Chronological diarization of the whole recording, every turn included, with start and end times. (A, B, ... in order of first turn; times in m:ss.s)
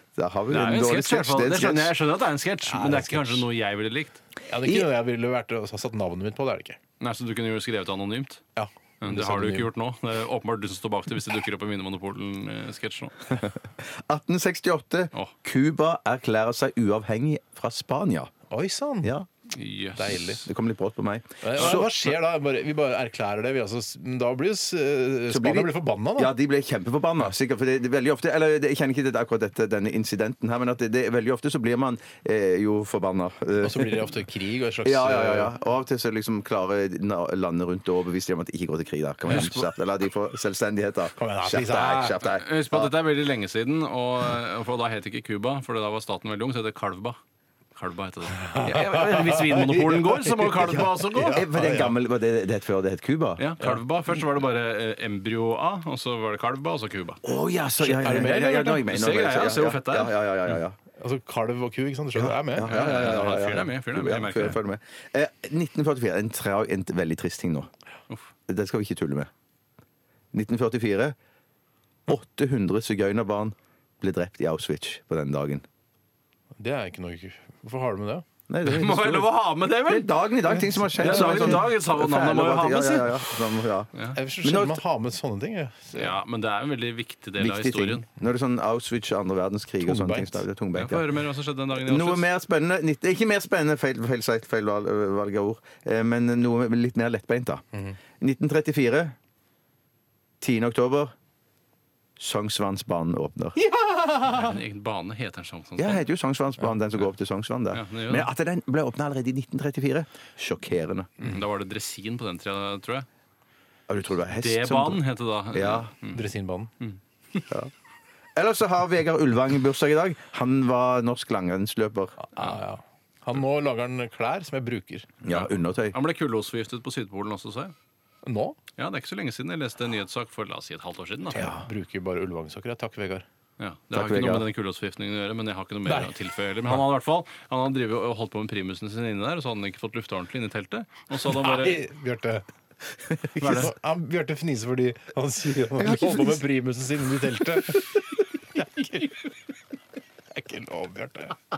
0:00.2-0:01.9 A
0:00.5-0:04.2 B
0:02.6-0:03.4 C
0:04.5-0:06.8 C
0:04.6-0:04.9 A
0:07.0-0:08.4 B
0:08.6-0:09.7 C
0:09.0-0:13.4 B
0:13.4-0:18.3 A
0:18.5-0:19.1 C
0:19.0-0:19.3 A
0:19.5-0:20.4 B
0:19.9-0:20.4 C
0:20.3-0:22.1 A
0:21.4-0:26.3 C
0:25.3-0:34.0 A
0:33.6-0:35.5 C
0:34.8-0:42.9 A
0:39.3-0:39.6 C
0:41.2-0:42.2 C
0:42.2-0:47.2 B
0:47.8-0:51.4 B
0:48.4-0:52.0 C
0:51.3-0:53.4 A
0:53.4-0:57.2 B
0:57.2-1:00.8 A
0:57.8-0:58.8 C
0:58.4-1:00.2 B
1:01.0-1:02.8 C
1:02.1-1:07.7 A
1:02.7-1:04.6 B
1:08.5-1:09.3 A
1:10.3-1:11.1 A
1:12.1-1:15.6 A
1:16.6-1:18.2 C
1:18.5-1:24.8 A
1:18.6-1:20.4 B
1:20.5-1:21.5 C
1:21.0-1:23.4 B
1:23.9-1:24.2 B
1:24.1-1:26.2 C
1:25.9-1:28.0 B
1:27.4-1:31.1 A
1:29.8-1:30.4 C
1:30.7-1:32.3 B
1:31.8-1:37.6 A
1:38.2-1:39.1 A
1:40.4-1:41.1 A
1:42.2-1:43.6 A
1:43.6-1:44.6 C
1:44.3-1:46.0 B
1:45.8-1:51.3 A
1:47.7-1:48.3 B
1:51.2-1:53.0 B
1:53.9-1:55.0 A
1:54.4-1:56.2 B
1:55.5-1:55.9 A
1:56.1-1:56.7 C
1:56.8-1:57.4 B
1:58.4-2:02.2 A
2:02.2-2:05.1 C
2:05.2-2:06.0 A
2:05.2-2:07.7 B
2:08.2-2:08.6 C
2:08.8-2:11.5 B
2:11.3-2:13.2 C
2:11.3-2:11.6 A
2:13.6-2:21.9 B
2:13.9-2:14.5 A
2:15.8-2:16.1 C
2:21.2-2:22.4 C
2:23.4-2:23.7 B
2:23.4-2:29.3 C
2:25.7-2:26.4 A
2:30.3-2:31.4 C